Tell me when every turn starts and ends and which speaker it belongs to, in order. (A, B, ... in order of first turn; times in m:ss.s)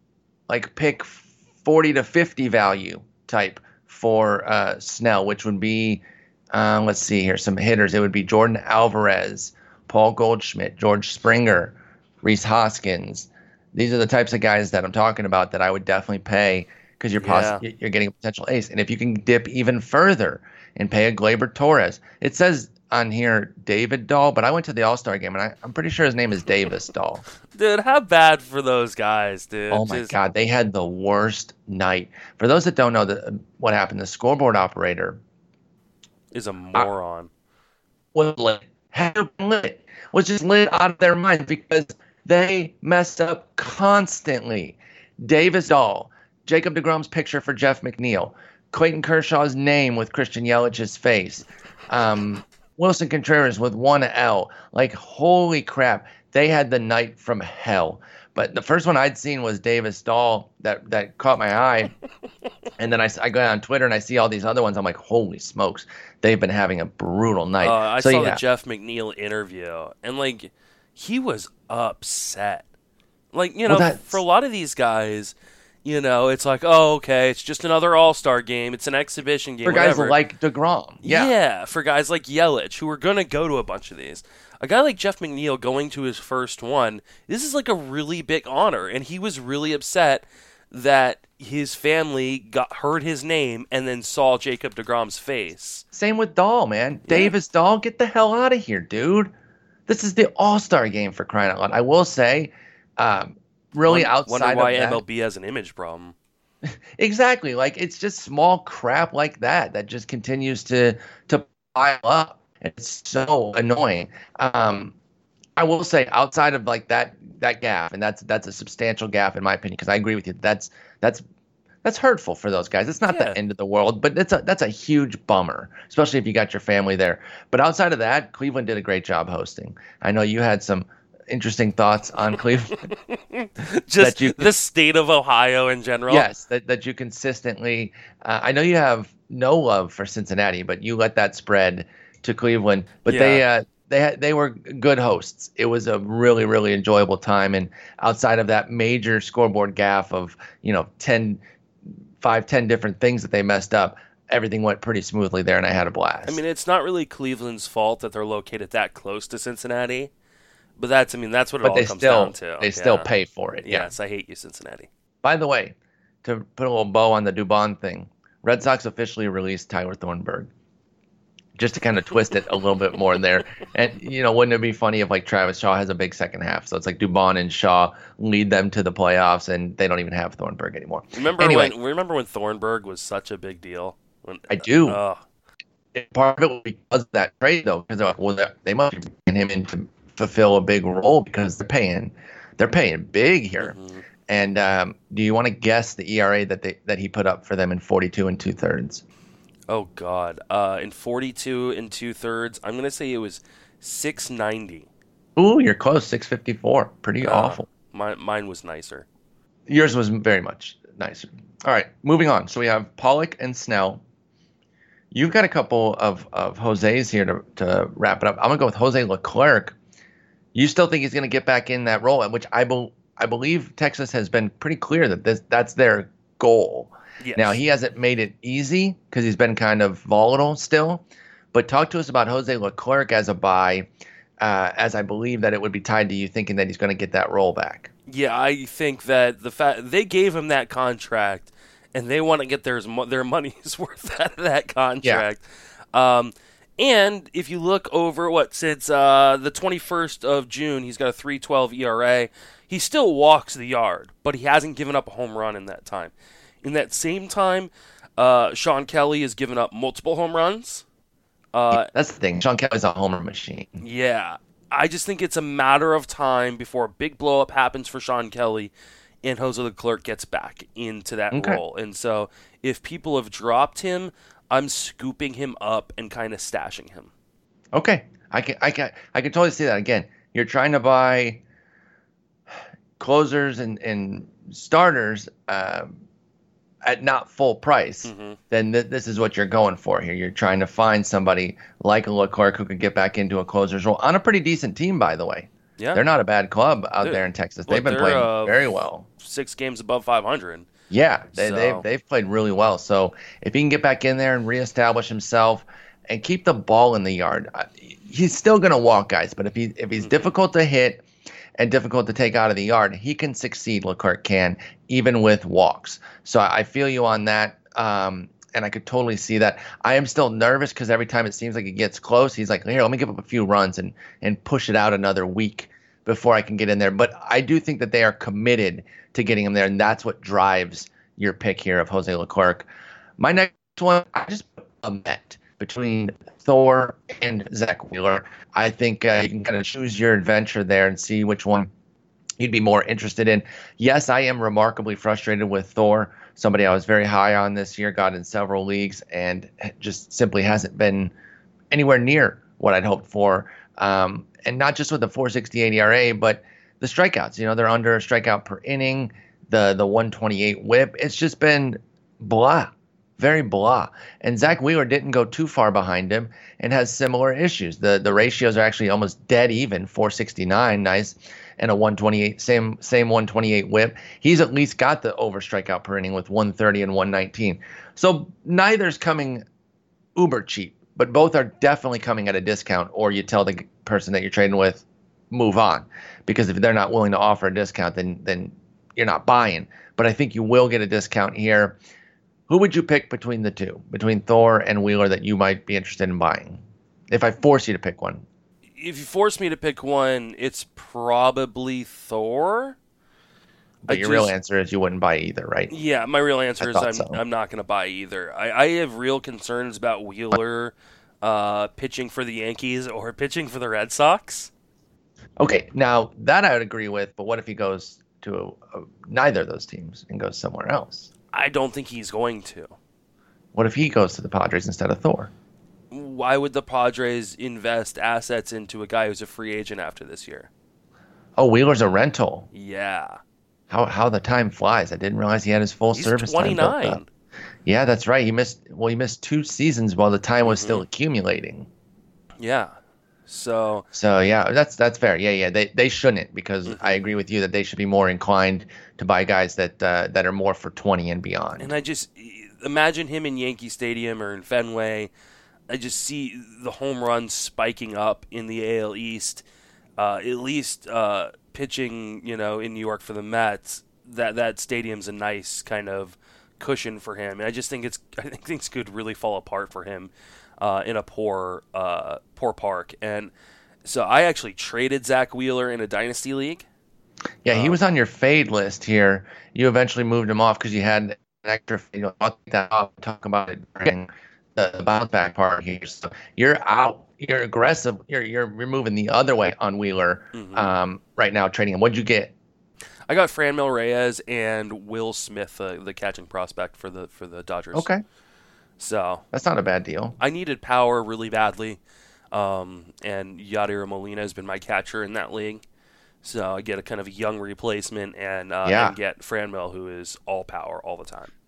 0:00.5-0:27.2 A
0:17.2-0:17.6 B
0:27.5-0:30.2 B
0:29.7-0:35.2 A
0:36.3-0:37.3 B
0:38.1-1:01.9 A
1:02.8-1:08.4 A
1:07.6-1:12.7 B
1:13.3-1:20.2 B
1:13.6-1:14.2 A
1:19.6-1:21.3 A
1:21.0-1:35.8 B
1:35.9-1:39.3 A
1:37.1-1:37.3 B
1:39.9-1:45.0 A
1:43.9-1:46.1 B
1:47.0-1:54.9 A
1:55.6-2:01.2 A
2:01.8-2:12.9 A
2:03.1-2:03.4 B
2:12.9-2:16.2 B
2:14.0-2:14.5 A
2:16.1-2:31.4 A
2:23.1-2:23.4 B
2:32.2-2:36.4 A
2:36.2-2:40.1 B
2:40.8-2:43.1 B
2:41.6-2:43.9 A
2:43.6-2:44.9 B
2:45.2-2:50.5 A
2:51.6-3:01.7 A
3:01.1-3:05.2 B
3:04.5-3:05.0 A
3:05.9-3:19.0 A
3:13.6-3:14.0 B
3:19.7-3:24.9 B
3:25.4-3:27.6 A
3:27.2-3:29.0 B
3:29.7-3:34.0 A
3:35.1-3:39.8 A
3:40.5-3:53.9 A
3:47.2-3:47.6 B
3:54.4-3:57.9 A
3:58.1-4:05.4 B
4:05.9-4:20.8 B
4:21.5-4:21.9 B
4:21.7-4:23.8 A
4:23.8-4:37.1 B
4:31.3-4:31.6 A
4:37.7-4:41.4 A
4:43.0-4:46.0 A
4:46.8-4:59.0 A
4:48.0-4:48.4 B
4:57.0-4:58.6 B
4:59.2-5:00.7 B
5:00.9-5:11.0 A
5:01.3-5:01.8 B
5:10.0-5:10.3 B
5:11.6-5:32.6 A
5:33.2-5:41.7 A
5:42.4-5:51.1 A
5:51.7-6:19.4 A
6:20.2-6:31.8 A
6:32.5-6:38.2 A
6:38.8-6:42.8 B
6:43.8-6:45.7 A
6:43.9-6:44.3 B
6:45.7-6:54.5 B
6:46.6-6:47.2 A
6:55.4-7:01.1 A
7:01.3-7:02.7 B
7:03.5-7:05.3 A
7:05.9-7:10.5 B
7:11.4-7:12.5 A
7:12.5-7:13.2 B
7:13.7-7:17.0 A
7:15.9-7:17.1 B
7:17.6-7:21.7 A
7:20.4-7:20.8 B
7:22.4-7:22.8 B
7:23.3-7:23.9 B
7:23.9-7:31.7 A
7:26.6-7:27.0 B
7:31.6-7:35.1 B
7:35.7-7:39.4 B
7:40.0-7:53.3 B
7:53.8-7:56.6 B
7:57.4-8:12.3 A
7:57.5-7:57.8 B
8:10.3-8:10.7 B
8:13.1-8:17.9 B
8:17.7-8:18.0 A
8:18.8-8:19.2 B
8:19.3-8:20.2 A
8:20.2-8:21.8 B
8:22.3-8:25.6 B
8:26.2-8:31.3 B
8:28.6-8:29.0 A